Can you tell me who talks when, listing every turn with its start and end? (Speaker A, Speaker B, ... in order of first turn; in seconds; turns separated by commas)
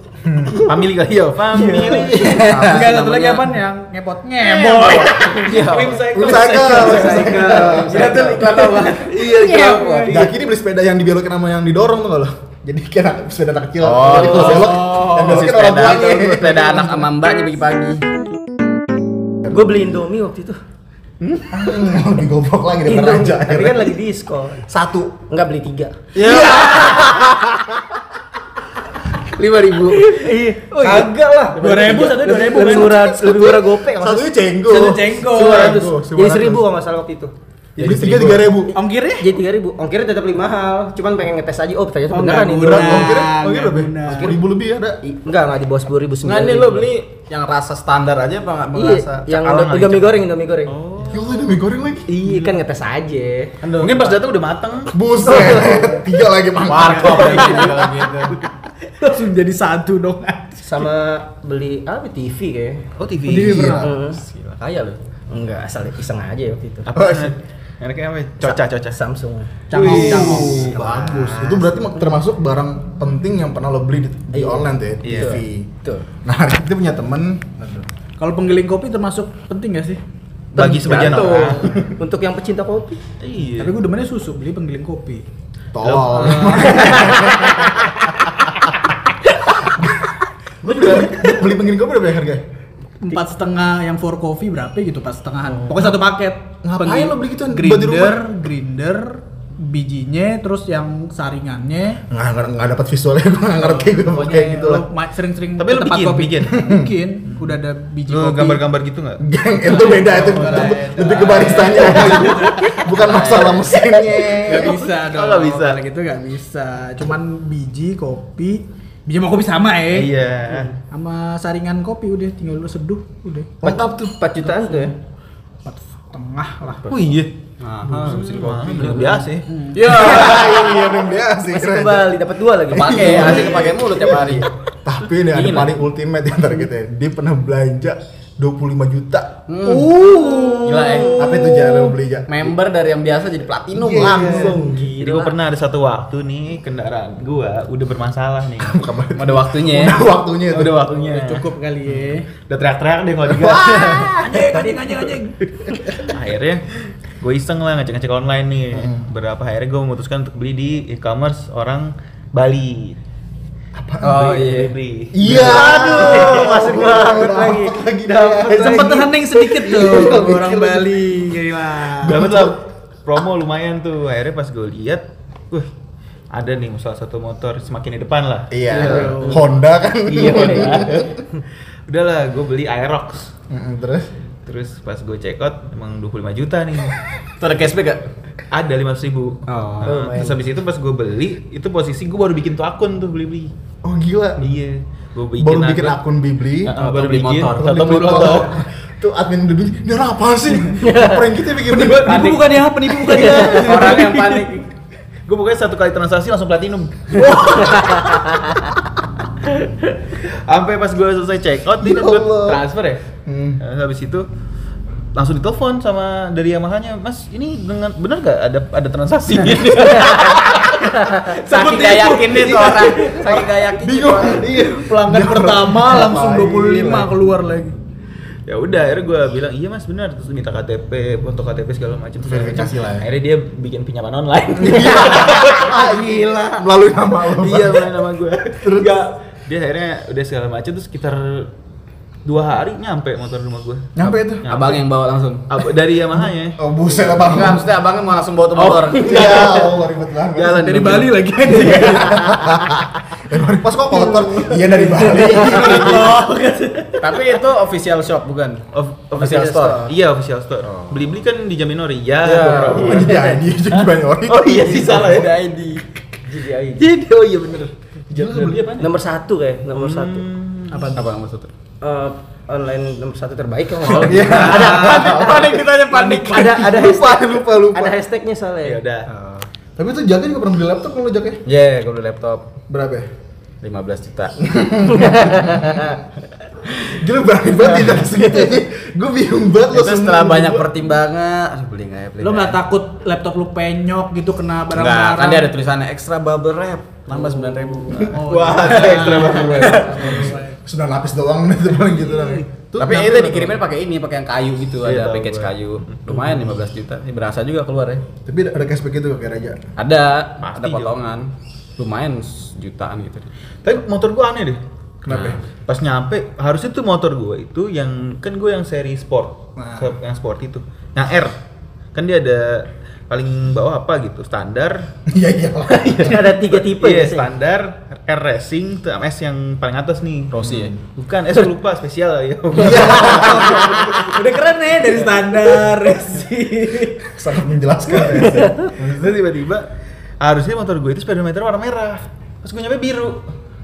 Speaker A: 0.2-0.6, Speaker B: 0.6-2.4, Speaker C: 1.5-3.6, Speaker A: 2.0-3.0, Speaker D: 2.5-5.6, Speaker B: 4.4-10.3, Speaker C: 4.8-10.2, Speaker A: 6.1-8.3, Speaker D: 7.0-10.0, Speaker A: 10.1-17.1, Speaker C: 13.8-18.1, Speaker E: 14.2-14.5, Speaker E: 19.5-20.6, Speaker B: 21.2-21.9, Speaker A: 21.5-24.0, Speaker E: 22.9-24.6, Speaker A: 24.6-25.2, Speaker E: 25.3-27.2, Speaker A: 26.2-27.9, Speaker B: 26.2-26.9, Speaker D: 26.6-26.9, Speaker C: 29.3-30.2, Speaker E: 30.0-34.3, Speaker D: 30.7-33.0, Speaker A: 32.6-36.7, Speaker D: 34.6-35.9, Speaker E: 35.2-37.3, Speaker A: 37.8-38.7, Speaker C: 37.8-38.5, Speaker E: 38.1-43.2, Speaker D: 38.7-39.3, Speaker D: 42.1-44.4, Speaker A: 42.6-45.0, Speaker E: 45.0-46.9, Speaker C: 46.2-49.7, Speaker E: 48.7-50.8, Speaker B: 49.3-51.5, Speaker A: 51.1-52.1, Speaker B: 52.1-52.6, Speaker E: 52.1-53.6, Speaker B: 53.6-55.0, Speaker C: 53.7-54.2, Speaker A: 54.9-57.7, Speaker E: 55.3-55.9, Speaker C: 56.6-58.4, Speaker D: 56.7-58.0, Speaker D: 58.8-60.9, Speaker E: 60.6-62.8, Speaker B: 63.0-63.7, Speaker A: 63.3-63.9, Speaker D: 63.3-63.9, Speaker E: 63.8-64.2, Speaker C: 63.8-65.0, Speaker E: 65.3-67.1, Speaker B: 66.9-69.0, Speaker A: 67.0-67.3, Speaker E: 68.4-69.5, Speaker D: 69.7-71.6, Speaker B: 69.7-70.7, Speaker A: 69.8-75.7, Speaker E: 74.3-76.0, Speaker B: 75.0-75.4, Speaker A: 76.2-77.9, Speaker D: 78.2-80.0, Speaker B: 80.5-81.9, Speaker E: 80.5-83.0, Speaker B: 83.2-83.8, Speaker D: 83.6-85.2, Speaker A: 85.7-87.5, Speaker B: 85.8-86.9, Speaker D: 86.1-87.3, Speaker E: 87.1-87.6, Speaker A: 89.7-90.1, Speaker A: 90.6-92.4, Speaker D: 93.0-102.0, Speaker A: 95.7-96.0, Speaker A: 96.6-98.3, Speaker A: 102.1-104.9, Speaker D: 103.6-108.6, Speaker B: 105.6-106.6, Speaker A: 106.6-106.9, Speaker B: 107.3-107.6, Speaker B: 108.1-109.2, Speaker A: 109.2-114.8, Speaker D: 109.6-113.2, Speaker B: 110.2-110.8, Speaker C: 113.0-114.0, Speaker D: 114.3-120.1, Speaker B: 114.6-115.8, Speaker B: 119.9-120.7, Speaker D: 120.9-123.5, Speaker E: 123.6-125.0, Speaker A: 123.6-124.2, Speaker D: 124.5-124.9, Speaker D: 125.7-126.9, Speaker B: 126.9-129.5, Speaker C: 127.6-129.3, Speaker D: 129.5-130.4, Speaker C: 129.8-130.1, Speaker A: 129.8-132.2, Speaker E: 130.1-134.2, Speaker C: 132.7-134.5, Speaker A: 132.7-139.4, Speaker C: 135.2-135.8, Speaker C: 139.5-140.1, Speaker D: 139.6-141.9, Speaker C: 140.6-141.3, Speaker A: 141.1-142.5, Speaker C: 142.3-144.5, Speaker A: 143.7-144.7, Speaker E: 144.0-145.4, Speaker B: 144.0-148.8, Speaker A: 148.6-150.8, Speaker C: 149.2-150.1, Speaker B: 150.5-152.0, Speaker D: 150.9-152.3, Speaker B: 152.5-154.1, Speaker A: 153.3-154.9, Speaker D: 154.1-155.9, Speaker B: 156.0-156.6, Speaker B: 157.2-163.0, Speaker A: 158.7-159.1, Speaker A: 163.7-164.3, Speaker C: 164.0-164.8, Speaker B: 164.1-166.8, Speaker A: 165.1-171.3, Speaker E: 165.3-169.1, Speaker C: 165.8-166.5, Speaker D: 168.5-172.2, Speaker A: 172.0-172.6, Speaker B: 172.0-175.7, Speaker B: 176.3-179.1, Speaker A: 178.5-181.2, Speaker D: 178.7-179.4, Speaker E: 179.0-179.4, Speaker B: 180.1-181.2, Speaker B: 181.9-183.3, Speaker A: 183.5-184.1, Speaker B: 184.5-187.0, Speaker C: 187.4-188.1, Speaker B: 188.5-193.5, Speaker C: 189.5-190.1, Speaker A: 189.8-190.4, Speaker A: 193.8-194.5, Speaker B: 194.4-196.0, Speaker A: 195.4-196.7, Speaker B: 196.7-198.6, Speaker C: 196.8-198.5, Speaker A: 197.6-202.2, Speaker E: 200.8-201.3, Speaker B: 201.7-202.4, Speaker C: 202.1-202.4, Speaker D: 202.1-204.5, Speaker C: 203.0-204.7, Speaker E: 203.2-203.7, Speaker B: 205.3-208.5, Speaker B: 209.5-213.0, Speaker A: 211.8-212.6, Speaker A: 213.3-213.6, Speaker B: 213.6-214.3, Speaker B: 215.2-220.9, Speaker C: 219.9-224.5, Speaker D: 221.4-223.5, Speaker A: 223.8-226.5, Speaker D: 224.5-227.8, Speaker C: 226.1-227.1, Speaker B: 228.5-236.4, Speaker A: 232.2-233.1, Speaker A: 234.6-237.9, Speaker B: 237.3-241.5, Speaker A: 238.6-238.9, Speaker B: 242.2-243.9, Speaker A: 244.0-244.5, Speaker C: 244.0-245.6, Speaker B: 244.4-244.8, Speaker B: 245.5-246.6, Speaker A: 246.6-247.7, Speaker C: 247.1-249.4, Speaker B: 248.5-249.8, Speaker A: 249.0-250.7, Speaker B: 250.3-251.2, Speaker D: 250.6-252.4, Speaker A: 251.4-256.2, Speaker D: 253.9-257.2, Speaker C: 257.0-258.6, Speaker B: 258.7-265.3, Speaker C: 259.2-259.9, Speaker E: 259.3-259.8, Speaker C: 260.6-261.1, Speaker C: 262.2-263.2, Speaker A: 262.5-264.8, Speaker E: 263.0-263.4, Speaker C: 264.5-265.9, Speaker E: 266.3-266.9, Speaker B: 266.8-268.9, Speaker A: 268.1-268.7, Speaker E: 268.8-270.3, Speaker B: 269.7-271.0, Speaker D: 270.7-271.1, Speaker C: 270.9-271.5, Speaker E: 271.8-278.8, Speaker D: 273.9-276.8, Speaker A: 273.9-275.6, Speaker C: 275.6-276.4, Speaker A: 276.4-278.0, Speaker B: 278.6-279.1, Speaker C: 279.1-279.5, Speaker A: 279.8-281.4, Speaker C: 281.5-282.5, Speaker A: 282.7-283.1, Speaker C: 283.6-284.5, Speaker A: 284.4-286.0, Speaker E: 284.9-285.6, Speaker A: 286.7-290.9, Speaker C: 289.7-292.6, Speaker D: 292.2-295.5, Speaker C: 294.7-300.1, Speaker B: 297.9-300.3, Speaker D: 298.0-300.6, Speaker A: 299.8-303.6, Speaker D: 301.9-302.4, Speaker C: 302.8-308.1, Speaker B: 304.8-306.3, Speaker A: 308.3-309.6, Speaker C: 309.8-313.3, Speaker B: 310.4-310.9, Speaker B: 313.6-314.6, Speaker A: 315.0-315.4, Speaker C: 315.1-315.4, Speaker B: 315.1-321.4, Speaker A: 319.6-319.9, Speaker B: 321.9-324.9, Speaker A: 325.1-326.3, Speaker E: 325.7-327.3, Speaker B: 326.3-330.4, Speaker C: 330.3-330.8, Speaker A: 330.4-330.8, Speaker B: 330.9-334.1, Speaker A: 332.5-333.7, Speaker E: 332.6-334.0, Speaker D: 333.2-337.1, Speaker A: 337.1-339.2, Speaker E: 338.2-338.6, Speaker B: 338.7-339.7, Speaker B: 340.2-343.2